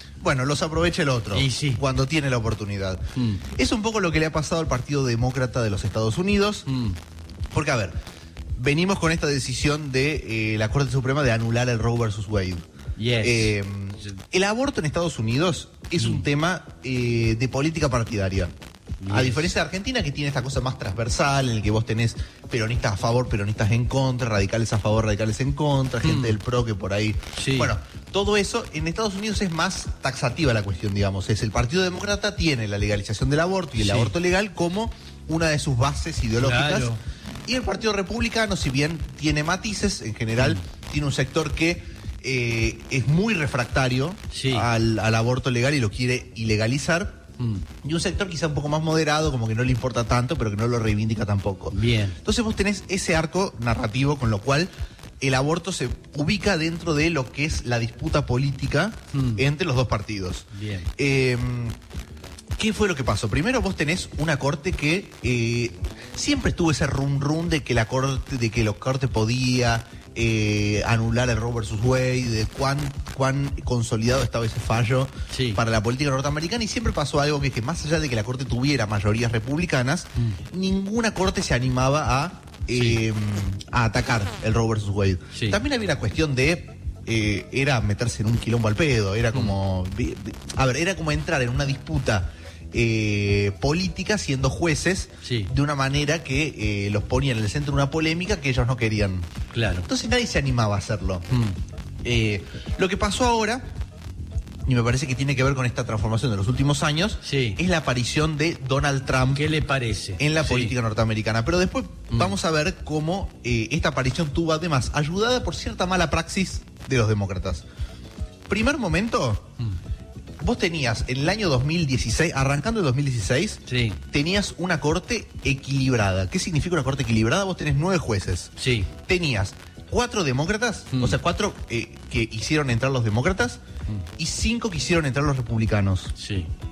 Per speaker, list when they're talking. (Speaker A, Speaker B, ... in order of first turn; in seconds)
Speaker A: 0.2-6.7, 7.5-8.0, 8.6-12.7, 13.2-18.5, 19.1-36.9, 37.5-47.2, 47.8-54.7, 55.2-61.8, 62.6-99.3, 99.9-101.3, 102.0-103.7, 104.7-109.5, 110.2-117.7, 118.5-119.5, 120.4-133.6, 134.2-136.1
Speaker B: 1.3-1.8, 3.1-3.5, 6.7-7.0, 13.0-13.5, 16.0-16.3, 19.0-19.5, 26.0-26.4, 27.4-27.7, 33.8-34.1, 36.4-37.0, 44.3-44.7, 47.4-47.7, 51.7-52.2, 59.1-59.4, 60.5-60.9, 75.3-75.6, 82.7-83.0, 85.3-85.6, 95.2-95.5, 99.5-99.9, 101.3-101.6, 107.2-107.6, 109.3-110.8, 123.7-124.0, 128.6-128.9, 130.9-131.2, 136.2-136.5